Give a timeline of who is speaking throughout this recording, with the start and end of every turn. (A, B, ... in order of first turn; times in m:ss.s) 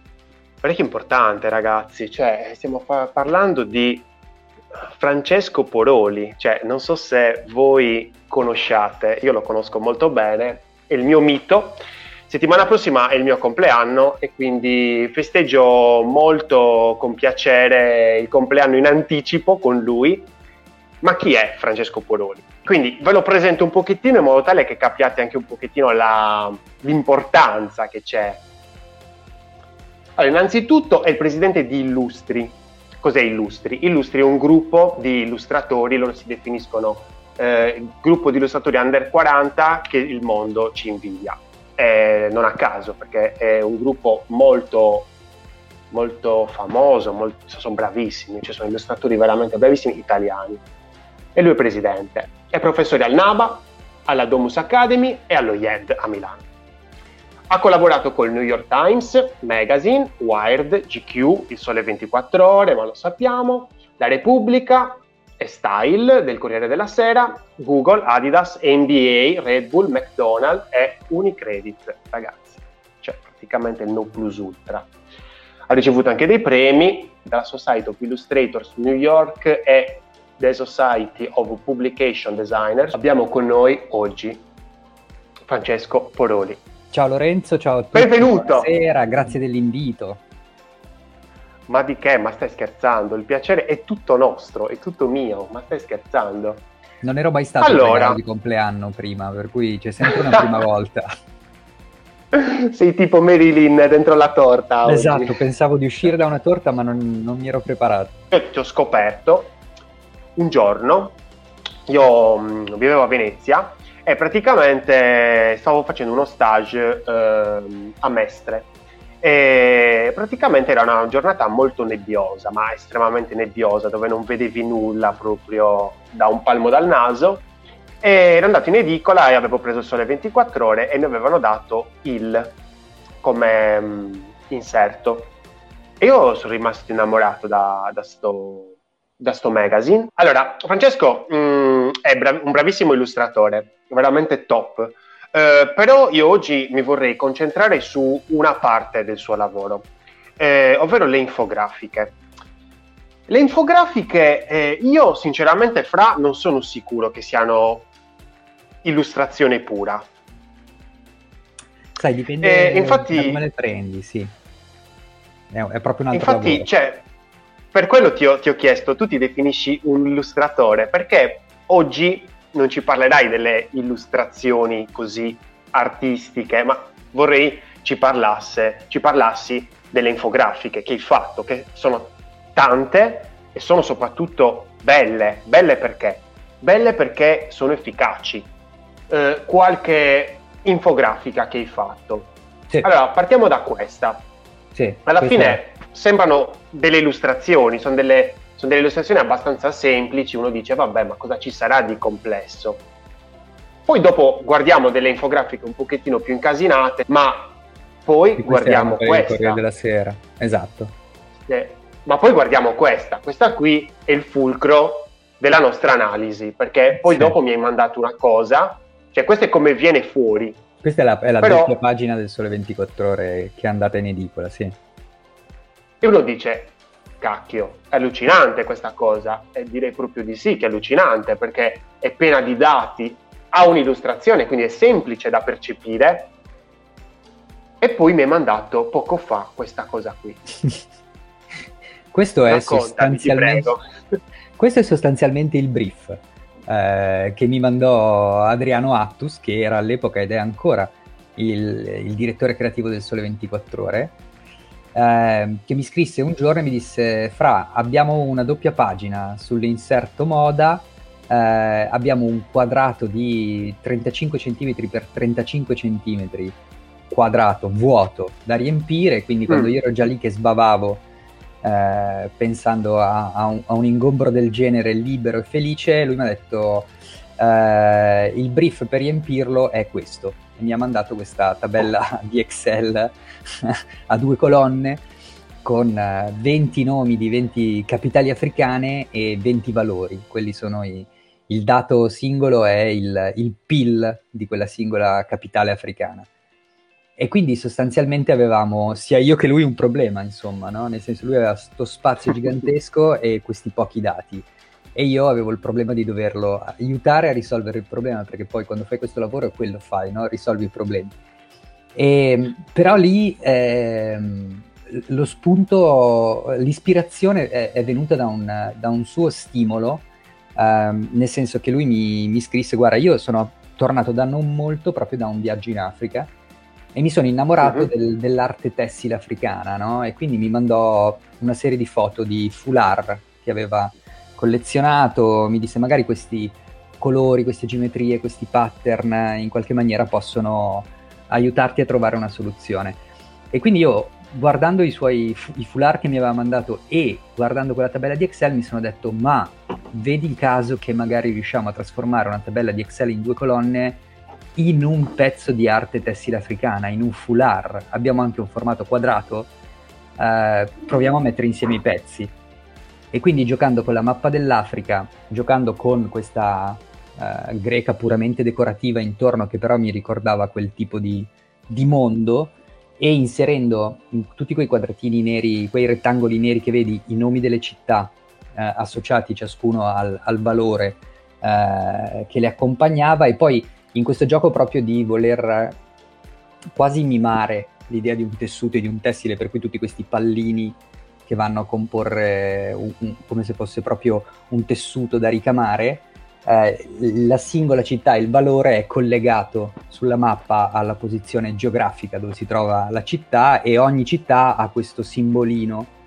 0:00.6-0:04.1 A
0:05.0-0:20.3 A
0:21.0-0:28.4 A
0:30.2-0:45.1 A
0:45.9-0:50.6 A
0:51.3-0:56.4 A
0:57.5-1:14.9 A
1:15.7-1:24.4 A
1:25.5-1:26.6 A
1:26.9-1:30.2 B
1:27.9-1:28.7 A
1:31.7-1:36.7 A
1:37.0-1:41.1 B
1:37.6-1:38.2 A
1:40.1-1:40.4 A
1:42.3-1:45.4 A
1:44.8-1:48.2 B
1:48.3-1:49.5 A
1:50.4-1:51.2 A
1:51.9-1:58.7 A
1:59.2-2:07.4 A
2:08.0-2:12.5 A
2:13.2-2:15.3 A
2:16.0-2:29.9 A
2:30.4-2:32.2 A
2:33.3-2:37.9 A
2:38.8-2:40.0 A
2:42.0-2:44.3 B
2:42.4-2:43.4 A
2:45.5-2:46.7 B
2:46.1-2:47.0 A
2:47.7-3:08.5 A
3:09.1-3:14.2 A
3:14.7-3:15.6 B
3:15.0-3:22.8 A
3:23.9-3:29.6 A
3:28.4-3:30.9 B
3:31.5-3:40.6 A
3:37.0-3:37.4 B
3:40.8-3:44.8 B
3:41.4-3:41.7 A
3:46.0-3:56.3 A
3:57.8-4:00.4 A
4:02.1-4:03.8 B
4:02.5-4:03.8 A
4:04.6-4:14.2 B
4:14.9-4:26.6 B
4:27.1-4:31.0 B
4:29.5-4:29.7 A
4:31.6-4:45.0 B
4:45.6-4:56.3 B
4:57.2-5:11.1 B
5:11.9-5:26.3 B
5:26.9-5:43.0 B
5:27.6-5:27.9 A
5:43.5-5:54.0 B
5:54.6-5:59.5 B
6:00.2-6:02.3 B
6:03.1-6:25.8 B
6:26.7-6:45.9 B